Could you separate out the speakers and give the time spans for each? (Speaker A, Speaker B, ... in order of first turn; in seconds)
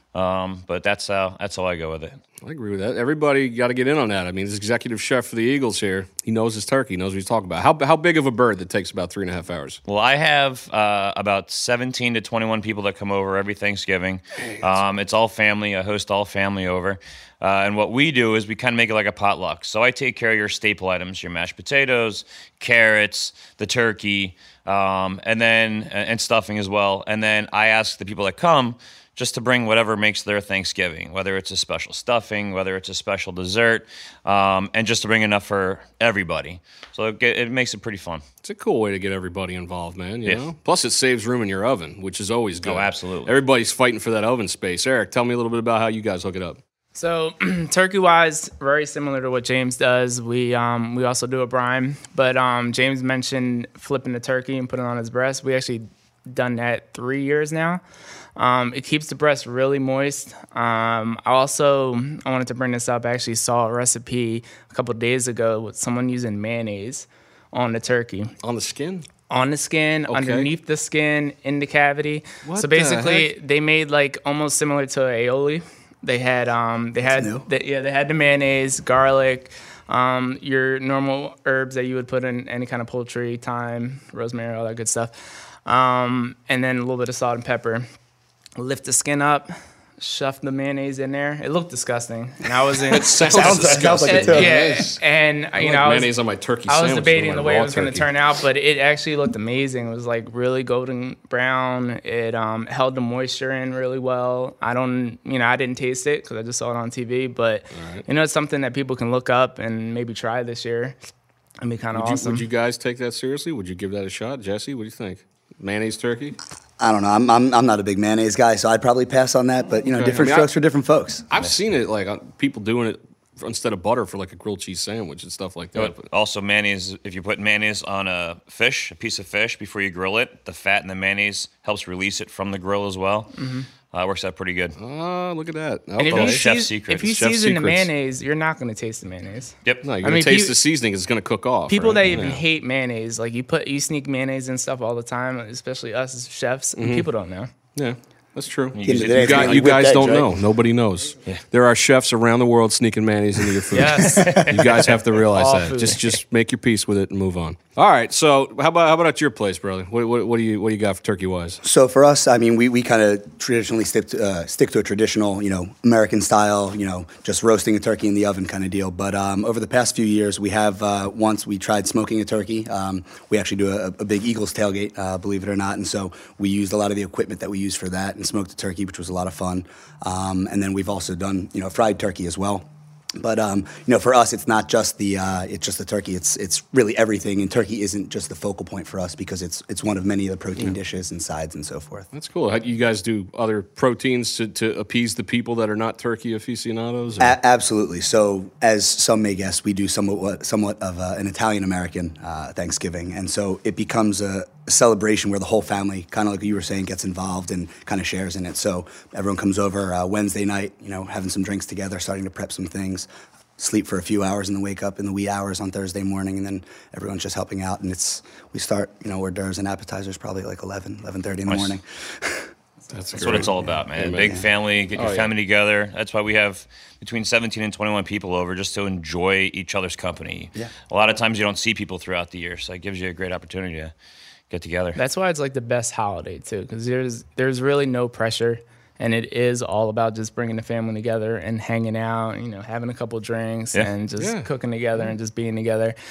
Speaker A: 0.1-2.2, 9.8-38.2, 42.6-43.3, 125.8-133.3, 133.9-134.8, 136.1-137.1, 148.7-149.7, 221.5-221.7, 223.2-233.9, 234.5-235.0
Speaker B: 2.4-9.8, 14.5-14.8, 38.4-46.6, 68.4-69.0, 70.1-70.5, 72.4-73.3, 92.9-95.0, 95.6-98.1, 107.7-108.0, 111.9-116.4, 119.9-120.5, 121.3-126.0, 134.8-136.5, 137.0-137.9, 139.8-142.4, 146.8-147.1, 147.7-161.6, 192.1-197.3, 222.9-225.3, 244.2-244.4
Speaker C: 46.9-57.8, 58.4-68.3, 69.3-87.8, 88.6-96.1, 96.7-111.0, 111.6-112.4, 133.3-133.7, 136.0-140.5, 141.7-147.5, 153.7-156.2, 234.9-245.9
Speaker D: 77.1-77.4, 93.3-94.6, 116.8-121.2, 148.8-150.3, 154.0-154.6, 161.6-182.6, 183.2-192.1, 197.2-222.5, 223.1-224.4